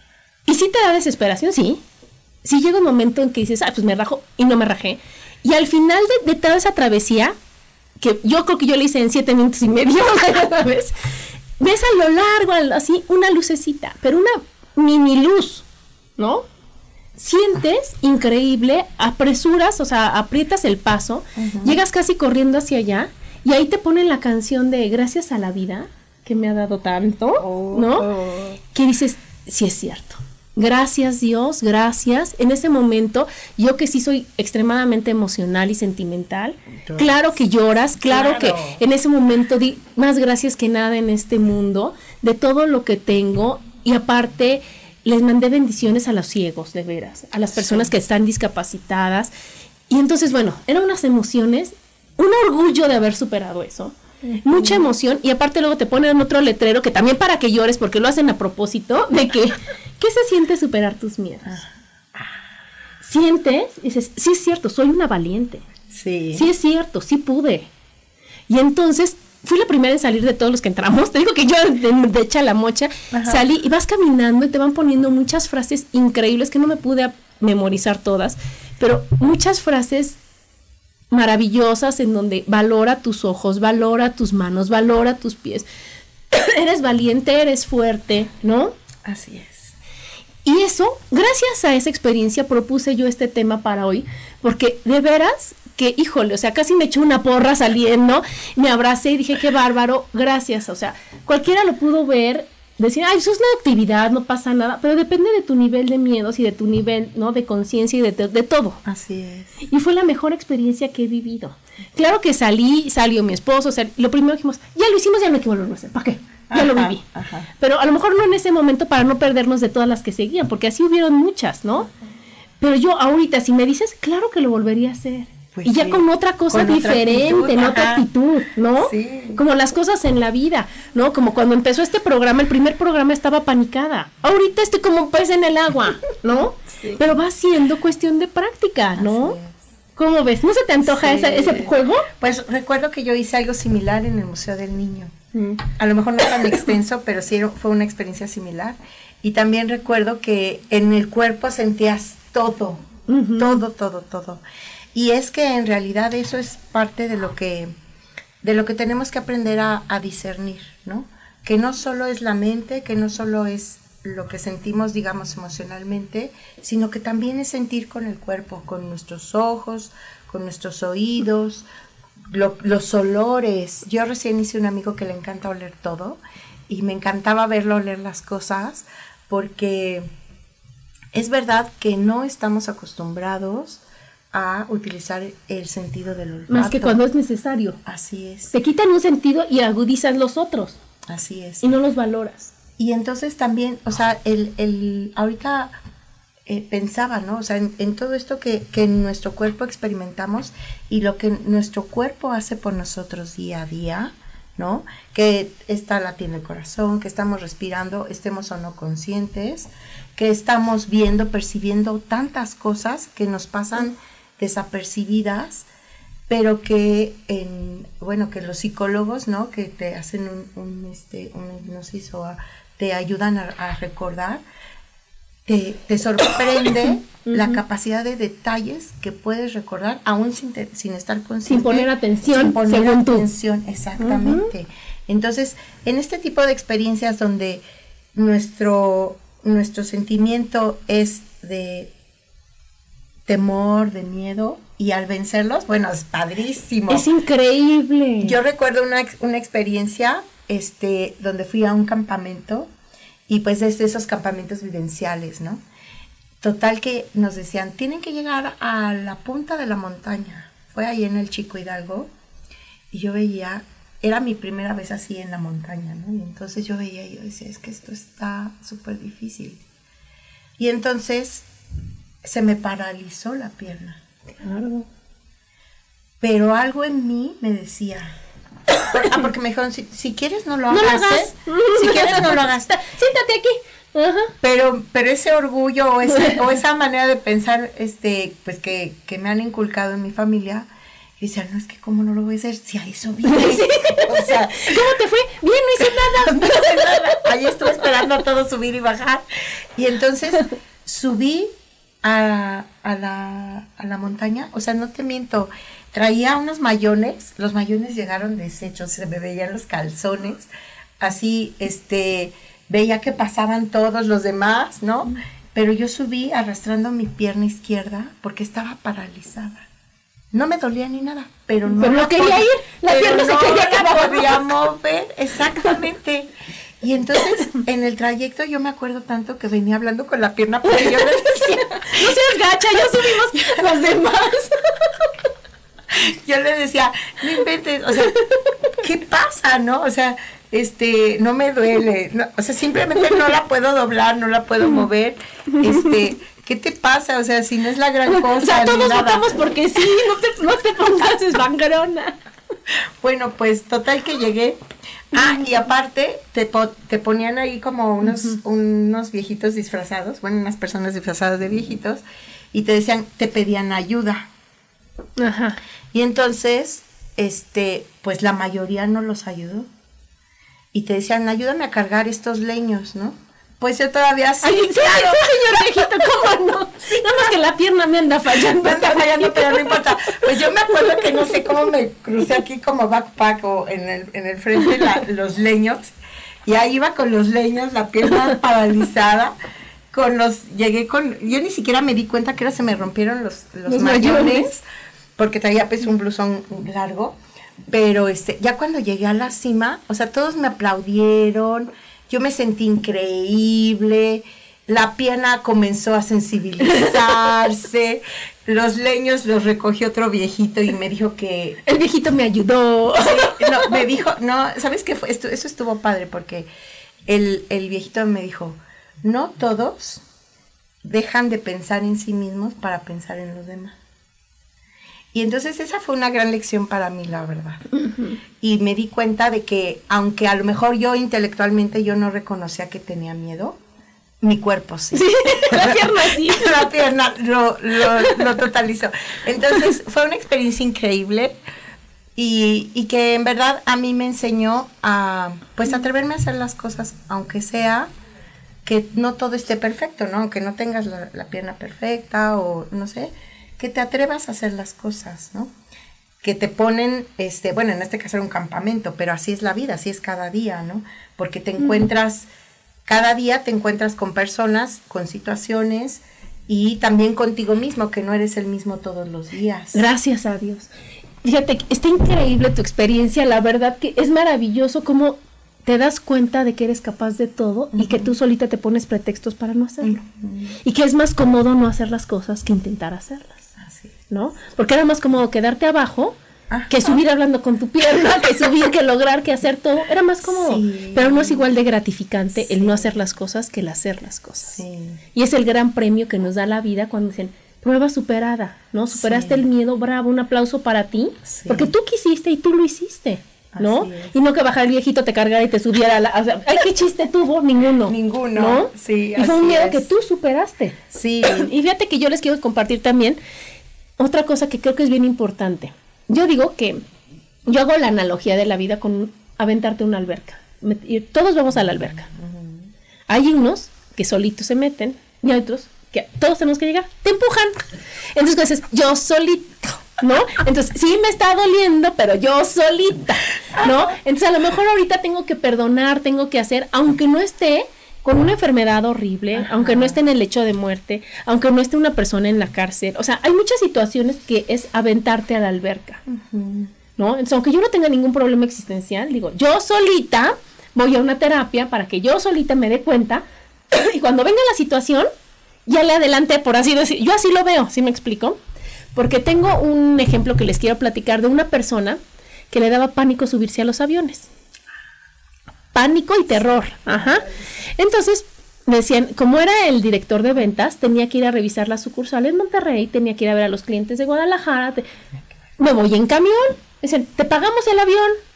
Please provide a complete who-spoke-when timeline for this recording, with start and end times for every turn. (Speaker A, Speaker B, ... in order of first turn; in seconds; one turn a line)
Speaker A: 0.5-1.8
Speaker A: 2.4-7.3
Speaker A: 8.0-10.9
Speaker A: 11.6-15.7
Speaker A: 16.2-16.5
Speaker A: 17.2-28.1
Speaker B: 21.4-21.8
Speaker B: 27.4-28.6
Speaker A: 28.7-49.3
Speaker B: 36.9-37.3
Speaker B: 38.0-38.8
Speaker B: 47.5-47.9
Speaker A: 49.9-61.6
Speaker B: 54.3-54.9
Speaker B: 61.5-62.3
Speaker A: 63.0-65.6
Speaker B: 65.9-66.5
Speaker A: 66.3-67.7
Speaker A: 68.5-80.2
Speaker B: 73.1-73.5
Speaker A: 81.1-85.7
Speaker A: 86.3-88.8
Speaker B: 89.0-89.7
Speaker A: 90.5-108.8
Speaker B: 108.8-109.6
Speaker A: 109.6-117.0
Speaker B: 116.5-117.5
Speaker A: 117.6-121.9
Speaker A: 122.6-139.4
Speaker B: 125.5-128.1
Speaker B: 128.8-129.4
Speaker B: 136.7-137.0
Speaker B: 138.9-139.6
Speaker A: 140.0-142.1
Speaker B: 140.8-154.4
Speaker A: 153.1-153.6
Speaker B: 154.9-157.7
Speaker B: 158.4-171.7
Speaker B: 172.3-180.1
Speaker B: 181.1-187.0
Speaker A: 186.5-187.8
Speaker B: 187.8-188.5
Speaker A: 188.5-190.8
Speaker B: 191.1-191.7
Speaker A: 191.6-192.5
Speaker B: 192.8-195.8
Speaker B: 196.5-215.7
Speaker B: 216.3-224.4
Speaker B: 225.5-237.6
Speaker A: 227.2-227.6
Speaker A: 231.4-233.3
Speaker A: 234.0-234.5
Speaker B: 238.1-241.9
Speaker B: 243.3-247.1
Speaker A: 246.9-248.4
Speaker B: 248.2-252.7
Speaker B: 253.3-255.6
Speaker B: 256.4-262.1
Speaker B: 262.9-269.6
Speaker B: 270.6-271.5
Speaker B: 272.2-274.0
Speaker A: 274.4-274.9
Speaker B: 276.2-278.2
Speaker B: 278.8-282.8
Speaker A: 280.7-284.3
Speaker B: 284.4-294.9
Speaker A: 286.1-286.4
Speaker A: 293.2-297.3
Speaker B: 296.2-299.2
Speaker B: 299.8-301.5
Speaker B: 302.0-319.7
Speaker B: 320.3-332.3
Speaker A: 321.8-324.3
Speaker A: 330.7-334.7
Speaker B: 332.9-333.7
Speaker B: 335.9-338.2
Speaker B: 338.8-349.4
Speaker A: 345.6-345.9
Speaker A: 348.1-352.2
Speaker B: 353.0-364.3
Speaker A: 355.1-355.4
Speaker A: 358.1-358.4
Speaker A: 365.2-365.6
Speaker B: 365.9-369.7
Speaker B: 370.7-376.2
Speaker A: 374.4-379.8
Speaker B: 376.9-377.3
Speaker B: 378.4-385.9
Speaker B: 386.5-389.3
Speaker B: 389.9-394.6
Speaker A: 393.7-394.5
Speaker B: 395.2-397.2
Speaker B: 397.7-411.6
Speaker A: 411.6-413.8
Speaker B: 413.0-416.5
Speaker B: 417.1-420.0
Speaker B: 420.8-423.8
Speaker B: 425.1-427.7
Speaker A: 427.8-428.2
Speaker B: 428.4-433.6
Speaker B: 434.2-441.4
Speaker A: 434.9-436.7
Speaker B: 442.2-447.9
Speaker B: 448.6-455.5
Speaker B: 456.2-462.3
Speaker A: 461.6-461.9
Speaker B: 462.9-469.9
Speaker A: 469.7-470.7
Speaker A: 471.2-480.0
Speaker B: 477.8-478.1
Speaker B: 479.8-480.6
Speaker A: 480.6-483.5
Speaker B: 483.6-483.9
Speaker A: 484.1-486.1
Speaker B: 486.5-487.0
Speaker A: 486.7-494.6
Speaker B: 490.2-491.5
Speaker B: 492.5-493.0
Speaker B: 494.5-495.0
Speaker A: 495.1-513.2
Speaker B: 498.9-499.4
Speaker B: 501.2-501.7
Speaker B: 503.5-504.1
Speaker B: 507.8-509.9
Speaker B: 510.9-511.5
Speaker A: 514.0-516.9
Speaker A: 517.5-522.1
Speaker B: 521.5-522.7
Speaker A: 523.1-546.0
Speaker B: 533.5-533.9
Speaker B: 539.3-540.0
Speaker B: 546.1-546.7
Speaker A: 547.0-555.1
Speaker A: 555.7-558.4
Speaker A: 559.0-562.0
Speaker A: 562.5-564.3
Speaker A: 565.7-574.9
Speaker B: 566.3-567.6
Speaker A: 575.6-578.2